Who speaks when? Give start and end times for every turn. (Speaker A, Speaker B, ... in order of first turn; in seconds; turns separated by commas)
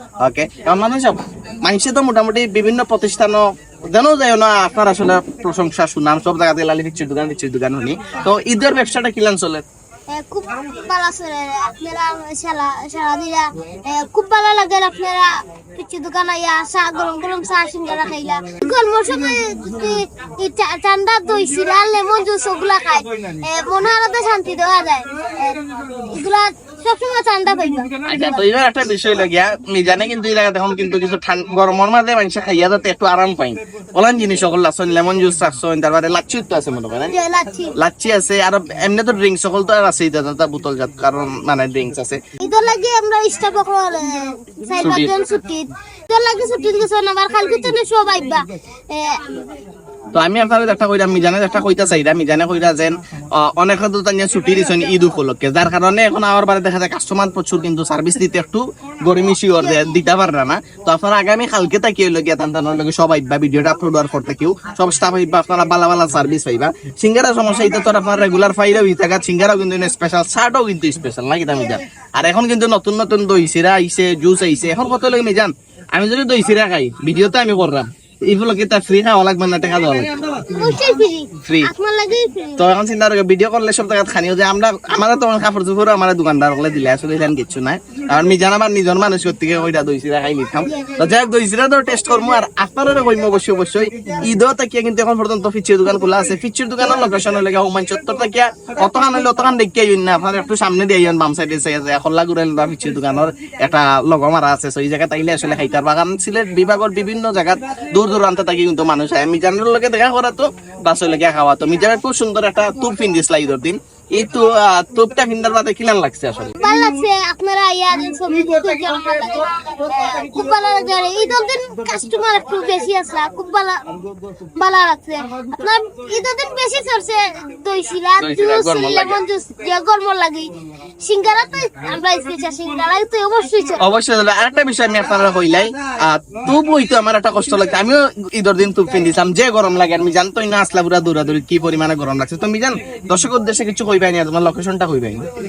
Speaker A: 0.2-9.6, Speaker B: 10.1-27.9, Speaker A: 28.1-37.1, Speaker B: 37.1-37.7, Speaker A: 37.8-42.2, Speaker B: 42.4-49.4, Speaker A: 44.8-45.1, Speaker A: 50.1-80.6, Speaker B: 59.6-60.0, Speaker B: 80.5-82.7, Speaker A: 81.4-81.7, Speaker A: 82.6-116.6, Speaker B: 90.6-91.2, Speaker B: 116.6-133.8, Speaker A: 128.2-129.2, Speaker A: 133.8-145.3